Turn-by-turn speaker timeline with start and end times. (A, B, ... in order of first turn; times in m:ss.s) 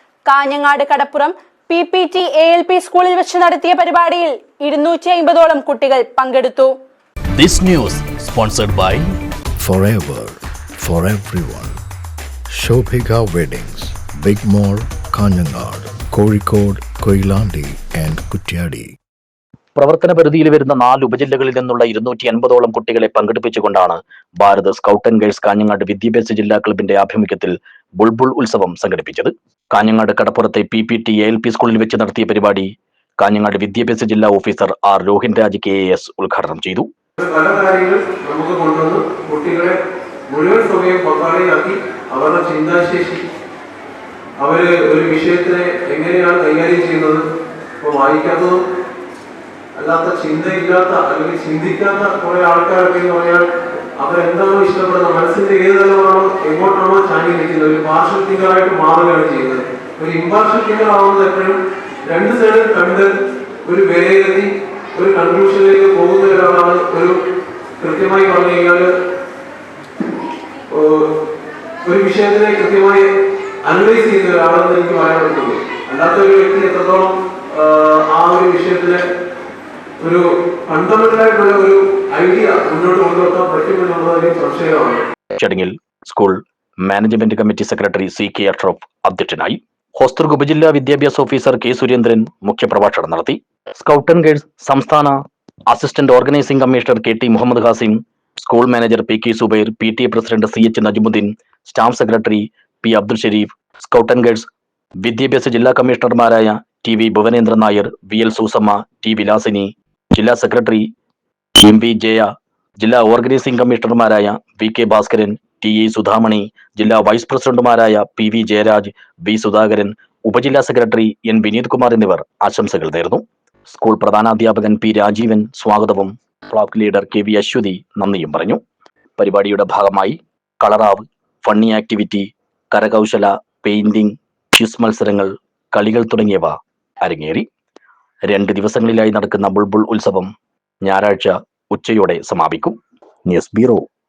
0:00.3-0:06.7 A
0:07.4-0:09.0 B
0:07.6-0:08.9 C
0:09.6-0:11.7 D
0:12.5-0:19.0 D
0:19.8-0:32.7 B
0:33.2-0:36.8 B
0:37.2-0:39.8 C
0:40.3-0:43.2 C
0:44.4-0:47.2 C
0:47.8-0:48.6 C
0:49.8-0:53.4 C
0:54.0-1:03.1 C
1:03.6-1:07.2 C
1:07.8-1:08.9 C
1:10.7-1:11.1 C
1:11.8-1:13.1 C
1:13.7-1:19.1 C
1:20.0-1:25.0 C
1:25.4-1:26.4 B
1:26.9-1:35.1 B
1:35.7-1:44.4 B
1:45.0-1:50.8 B
1:51.6-1:52.3 B
1:52.8-2:08.6 B
2:09.2-2:16.5 B
2:17.0-2:17.4 B
2:18.3-2:20.3 B
2:20.8-2:22.8 B
2:23.3-2:23.8 B